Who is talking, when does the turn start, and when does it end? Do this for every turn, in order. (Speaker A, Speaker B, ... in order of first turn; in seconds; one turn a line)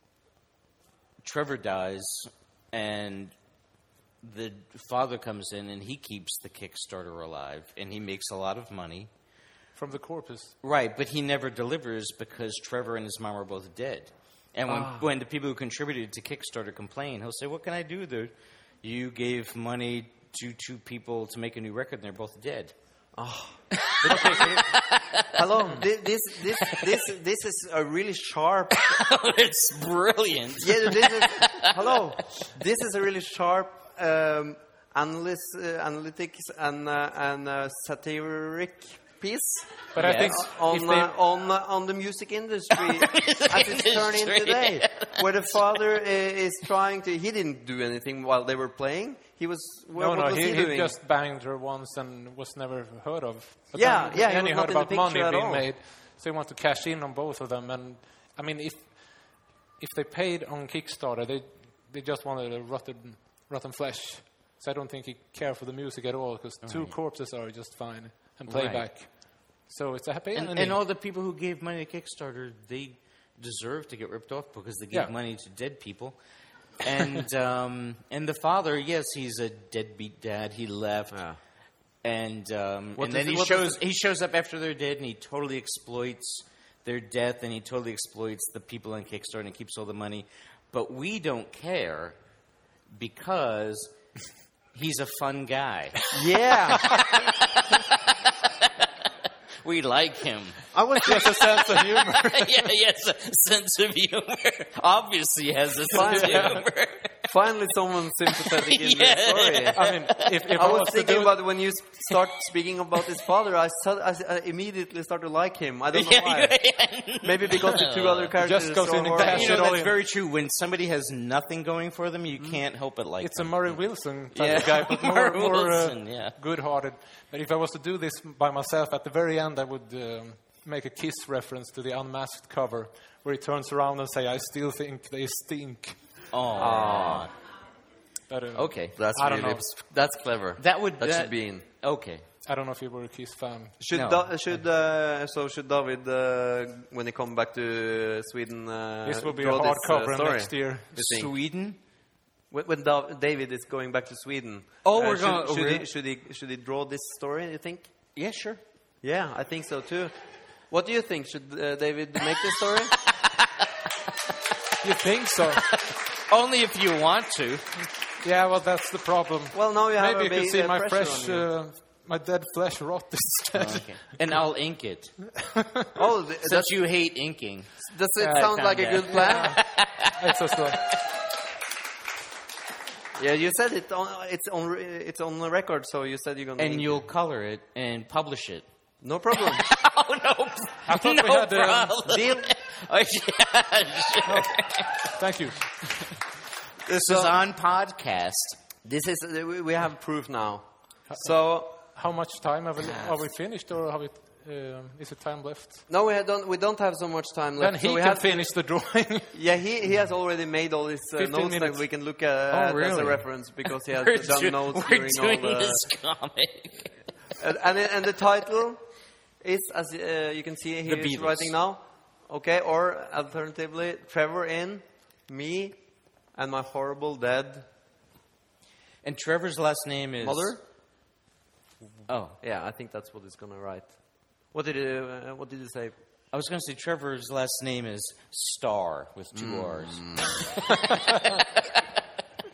Speaker A: 1.2-3.3
Speaker A: 4.2-9.1
Speaker B: 9.7-10.5
Speaker A: 10.6-22.7
Speaker C: 14.7-15.0
Speaker C: 23.1-28.9
Speaker A: 23.7-25.6
Speaker A: 26.6-27.1
Speaker A: 28.7-32.1
Speaker C: 30.6-51.0
Speaker B: 39.9-41.1
Speaker A: 40.0-40.4
Speaker A: 42.8-45.9
Speaker B: 50.0-70.8
Speaker C: 53.7-55.7
Speaker A: 66.6-67.0
Speaker A: 68.5-68.9
Speaker A: 70.3-81.4
Speaker C: 81.1-81.4
Speaker A: 82.0-92.2
Speaker C: 83.0-83.7
Speaker A: 92.9-93.9
Speaker A: 94.7-96.0
Speaker C: 96.1-96.9
Speaker A: 96.9-98.9
Speaker A: 99.6-107.3
Speaker B: 100.7-102.7
Speaker C: 101.0-101.5
Speaker C: 105.9-106.6
Speaker B: 106.1-106.6
Speaker C: 107.3-109.9
Speaker A: 108.2-110.5
Speaker B: 109.7-111.4
Speaker C: 110.5-116.6
Speaker A: 115.9-118.3
Speaker C: 117.2-119.6
Speaker B: 118.4-119.9
Speaker A: 119.2-126.4
Speaker B: 123.2-136.0
Speaker A: 136.3-137.3
Speaker C: 136.6-137.3
Speaker B: 138.3-139.6
Speaker A: 138.5-139.0
Speaker C: 138.9-141.6
Speaker A: 140.6-142.2
Speaker B: 142.4-143.8
Speaker C: 143.8-151.3
Speaker A: 143.9-144.2
Speaker B: 149.0-151.1
Speaker A: 150.9-151.8
Speaker C: 152.5-157.9
Speaker A: 154.8-155.8
Speaker A: 158.1-158.6
Speaker C: 159.0-160.1
Speaker C: 160.7-163.0
Speaker A: 163.0-163.7
Speaker B: 164.8-165.7
Speaker A: 165.6-167.9
Speaker B: 168.2-174.2
Speaker C: 169.5-171.5
Speaker A: 173.5-175.3
Speaker C: 175.9-176.7
Speaker A: 176.4-181.0
Speaker C: 177.9-179.6
Speaker B: 179.1-180.8
Speaker C: 183.2-186.9
Speaker A: 186.6-188.7
Speaker C: 189.0-189.7
Speaker A: 189.3-195.1
Speaker B: 190.8-192.0
Speaker C: 192.0-192.5
Speaker B: 194.2-196.1
Speaker A: 196.8-198.6
Speaker C: 196.9-197.3
Speaker C: 198.8-201.8
Speaker B: 201.1-205.8
Speaker A: 202.8-203.2
Speaker C: 205.9-208.5
Speaker B: 207.6-209.3
Speaker C: 209.3-215.8
Speaker B: 211.2-211.8
Speaker A: 212.5-216.9
Speaker C: 217.4-218.8
Speaker C: 219.4-227.7
Speaker A: 220.8-221.5
Speaker A: 229.0-230.6
Speaker C: 230.2-230.6
Speaker A: 232.1-232.4
Speaker C: 232.4-235.9
Speaker A: 236.3-241.8
Speaker C: 239.3-240.6